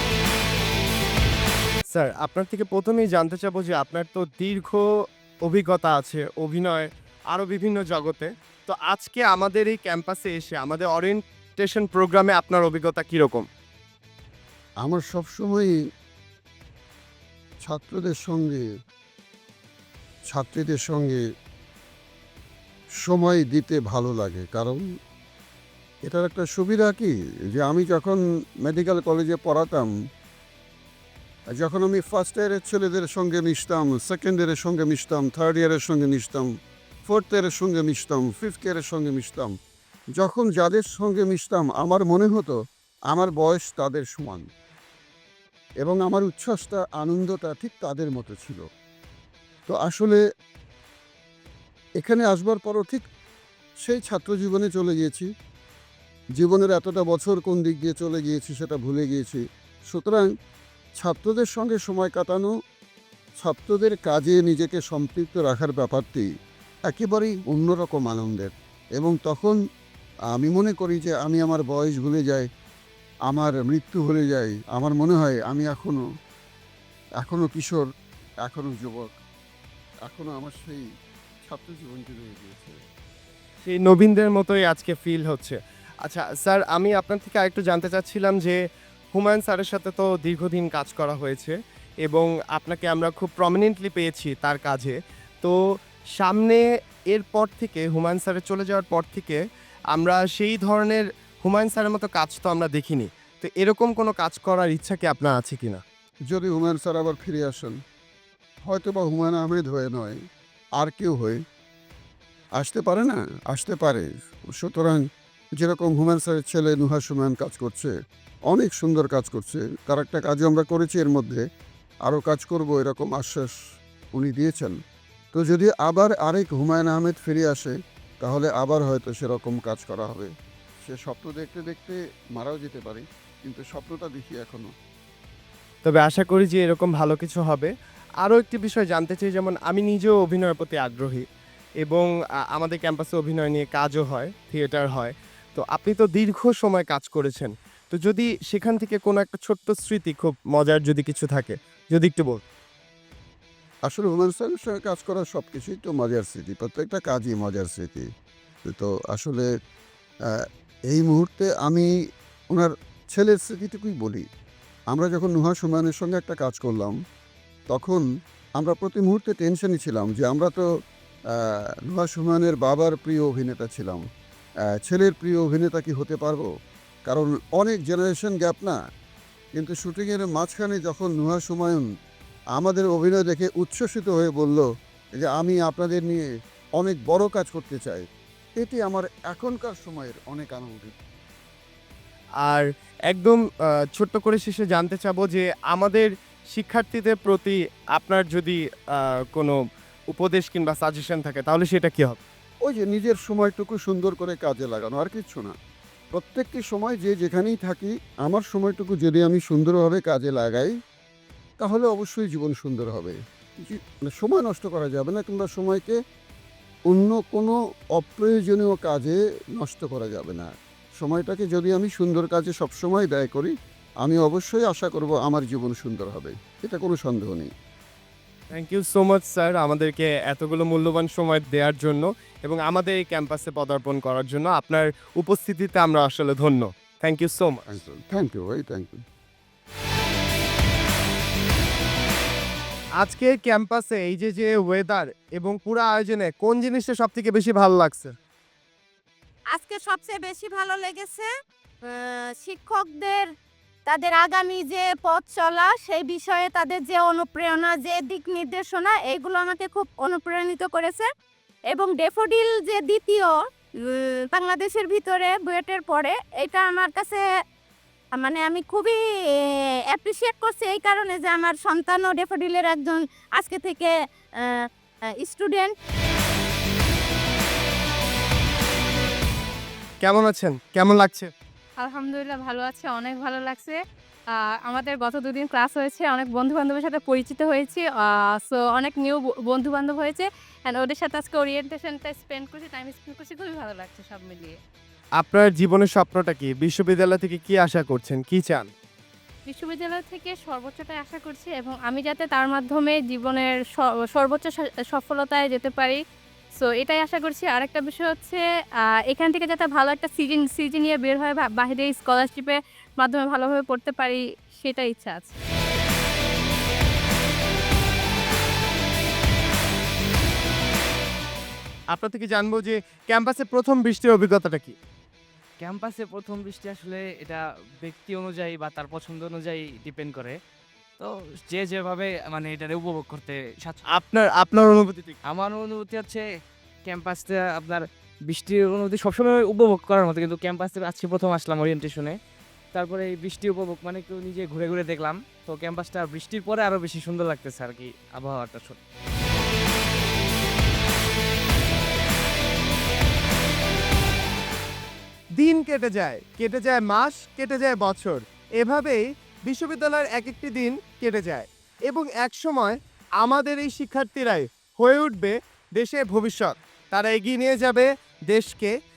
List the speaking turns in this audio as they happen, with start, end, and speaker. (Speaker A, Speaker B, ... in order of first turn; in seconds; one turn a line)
Speaker A: 1.9-4.8
Speaker A: 5.4-13.5
Speaker B: 14.8-15.7
Speaker B: 17.6-18.6
Speaker B: 20.3-21.2
Speaker B: 23.1-24.8
Speaker B: 26.1-29.9
Speaker B: 31.6-36.5
Speaker B: 37.0-39.5
Speaker B: 40.2-42.5
Speaker B: 43.1-44.5
Speaker B: 45.8-48.6
Speaker B: 49.7-50.2
Speaker B: 52.0-53.0
Speaker B: 53.8-55.3
Speaker B: 56.4-60.3
Speaker B: 61.0-62.5
Speaker B: 63.4-66.3
Speaker B: 66.9-69.6
Speaker B: 70.3-72.5
Speaker B: 73.3-76.0
Speaker B: 77.2-77.8
Speaker B: 78.4-79.1
Speaker B: 80.0-80.8
Speaker B: 81.4-82.8
Speaker A: 83.6-88.6
Speaker A: 89.1-95.5
Speaker A: 96.1-105.8
Speaker B: 106.3-107.7
Speaker B: 108.7-110.2
Speaker B: 110.8-111.4
Speaker B: 112.6-115.0
Speaker B: 115.6-117.9
Speaker B: 118.5-121.4
Speaker B: 122.1-123.5
Speaker B: 124.1-124.8
Speaker B: 125.3-130.3
Speaker B: 130.8-134.7
Speaker A: 135.8-141.2
Speaker A: 141.8-152.4
Speaker B: 153.9-158.1
Speaker B: 158.7-159.5
Speaker B: 160.9-161.9
Speaker B: 162.5-164.2
Speaker B: 164.9-166.9
Speaker B: 167.7-168.0
Speaker B: 168.6-170.6
Speaker B: 171.9-174.0
Speaker B: 174.8-176.5
Speaker B: 177.1-178.8
Speaker B: 179.6-181.8
Speaker B: 182.6-184.6
Speaker B: 185.2-186.2
Speaker B: 186.8-188.0
Speaker B: 188.6-190.9
Speaker A: 192.4-202.2
Speaker B: 202.7-205.5
Speaker B: 206.2-210.7
Speaker B: 211.6-215.9
Speaker B: 216.9-220.5
Speaker B: 221.0-223.5
Speaker B: 224.0-227.5
Speaker A: 228.5-237.8
Speaker B: 237.7-239.0
Speaker A: 243.0-248.2
Speaker C: 249.5-251.3
Speaker C: 251.8-253.3
Speaker C: 253.9-261.1
Speaker C: 261.7-267.2
Speaker C: 268.1-275.7
Speaker A: 280.0-281.3
Speaker D: 281.8-283.8
Speaker D: 284.6-294.6
Speaker A: 295.2-298.7
Speaker D: 299.5-306.0
Speaker D: 306.6-308.4
Speaker D: 309.1-315.4
Speaker A: 321.9-324.8
Speaker E: 325.6-330.4
Speaker E: 331.0-333.8
Speaker A: 333.8-335.2
Speaker E: 335.3-336.3
Speaker E: 336.8-342.2
Speaker E: 342.7-348.8
Speaker A: 355.4-368.7